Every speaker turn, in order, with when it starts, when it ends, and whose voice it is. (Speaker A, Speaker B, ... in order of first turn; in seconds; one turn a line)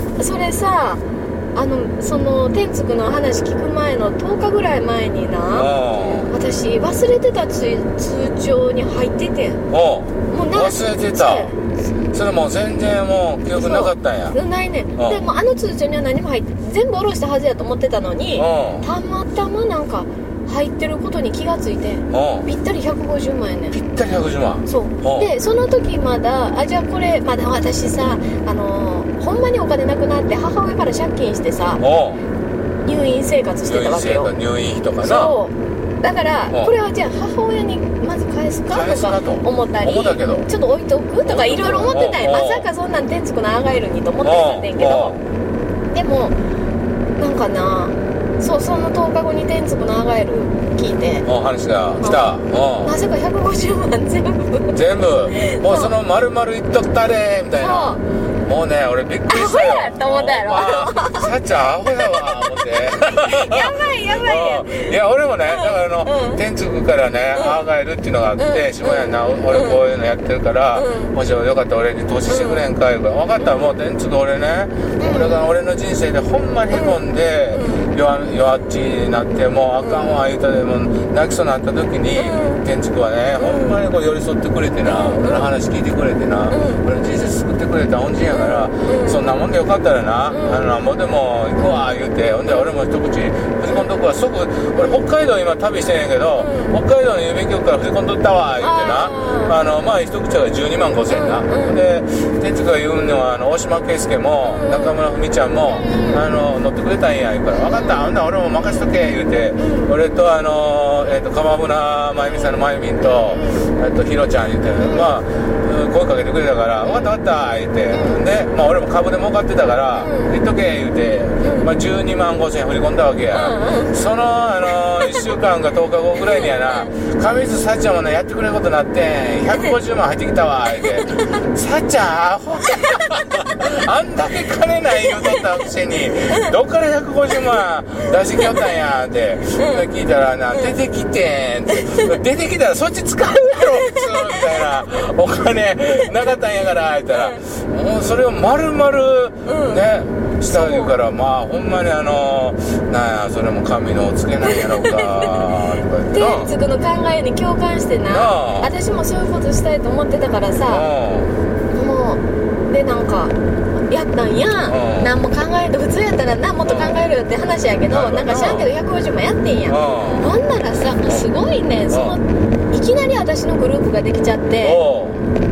Speaker A: 0.2-1.0
Speaker A: 1.5-5.7
Speaker B: 5.5-6.3
Speaker A: 6.2-9.6
Speaker B: 9.7-11.5
Speaker A: 10.3-11.6
Speaker B: 12.1-14.4
Speaker A: 13.5-23.8
Speaker B: 15.0-15.3
Speaker B: 18.4-18.9
Speaker B: 22.1-22.5
Speaker B: 23.7-25.3
Speaker A: 24.7-31.8
Speaker B: 31.8-32.2
Speaker A: 32.8-34.3
Speaker B: 33.6-35.4
Speaker A: 35.0-45.2
Speaker B: 38.7-40.5
Speaker B: 41.2-42.7
Speaker B: 44.2-45.2
Speaker A: 45.9-46.4
Speaker A: 47.2-51.3
Speaker B: 51.2-53.0
Speaker A: 52.0-55.9
Speaker B: 54.7-156.5
Speaker A: 57.6-58.0
Speaker A: 59.3-61.3
Speaker A: 62.2-66.4
Speaker A: 67.3-67.6
Speaker A: 68.4-69.8
Speaker A: 70.7-71.1
Speaker A: 72.3-72.7
Speaker A: 73.4-73.8
Speaker A: 75.0-75.4
Speaker A: 76.7-77.0
Speaker A: 77.5-77.9
Speaker A: 79.8-80.2
Speaker A: 82.1-82.6
Speaker A: 83.4-83.8
Speaker A: 84.8-85.5
Speaker A: 86.5-86.8
Speaker A: 88.3-89.2
Speaker A: 90.3-90.6
Speaker A: 96.4-96.8
Speaker A: 98.6-99.6
Speaker A: 101.1-101.8
Speaker A: 104.4-105.0
Speaker A: 105.7-106.2
Speaker A: 107.5-108.1
Speaker A: 109.5-110.0
Speaker A: 112.3-113.7
Speaker A: 114.8-115.1
Speaker A: 116.8-117.1
Speaker A: 117.9-118.2
Speaker A: 119.9-120.4
Speaker A: 121.4-121.7
Speaker A: 123.3-124.0
Speaker A: 125.0-125.3
Speaker A: 126.2-126.9
Speaker A: 131.0-131.4
Speaker A: 135.0-135.4
Speaker A: 138.0-138.6
Speaker A: 139.5-139.8
Speaker A: 141.7-142.2
Speaker A: 143.4-144.7
Speaker A: 147.1-147.4
Speaker A: 149.4-149.8
Speaker A: 150.5-150.9
Speaker A: 154.4-155.5
Speaker A: 156.1-160.9
Speaker B: 158.1-158.7
Speaker B: 160.7-161.4
Speaker A: 161.7-163.4
Speaker A: 163.9-174.8
Speaker B: 164.7-165.1
Speaker B: 166.7-167.0
Speaker B: 167.9-168.7
Speaker B: 169.7-170.3
Speaker B: 171.9-172.2
Speaker B: 174.6-175.2